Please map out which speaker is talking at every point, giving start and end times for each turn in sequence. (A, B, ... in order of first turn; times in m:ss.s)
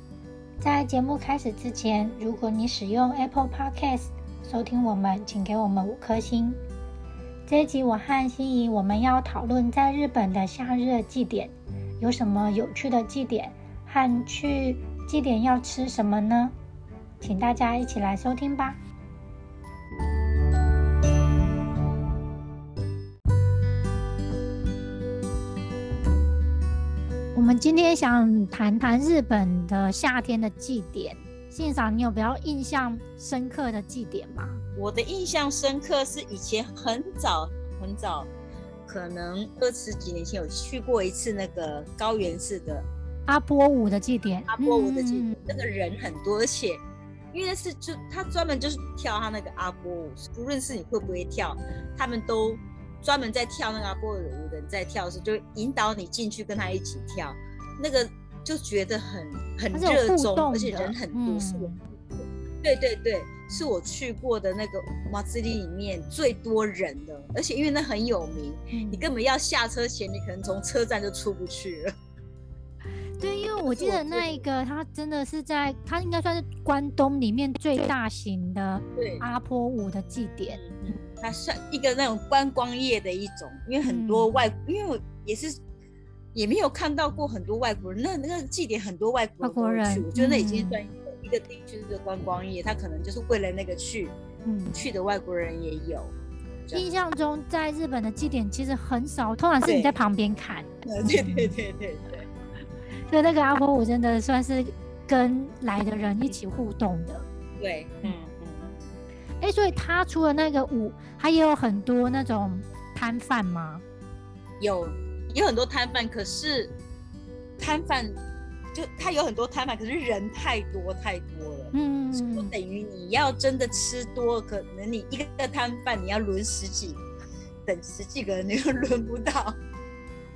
0:00.6-0:06.6 A
0:07.5-0:16.6 A
0:17.2-0:18.8 A
0:27.3-0:34.6 A
0:34.8-0:38.3 B
0:38.8-0:42.9 B
0:43.3-0:45.4 A
0:44.5-1:11.9 B
0:59.7-1:01.8 A
1:08.7-1:09.1 A
1:13.2-1:21.0 A
1:13.6-1:14.4 B
1:19.0-1:19.2 B
1:20.5-1:25.6 B
1:23.8-1:24.3 A
1:26.3-1:34.1 B
1:29.4-1:30.8 A
1:34.4-1:34.8 A
1:34.7-1:36.1 B
1:36.7-1:41.5 A
1:39.6-1:40.0 B
1:40.8-1:42.3 B
1:43.1-1:47.2 A
1:47.6-1:48.8 B
1:49.4-1:53.8 A
1:54.6-1:56.7 B
1:57.6-1:58.2 B
1:58.7-2:07.0 B
2:01.7-2:02.5 A
2:07.6-2:09.6 B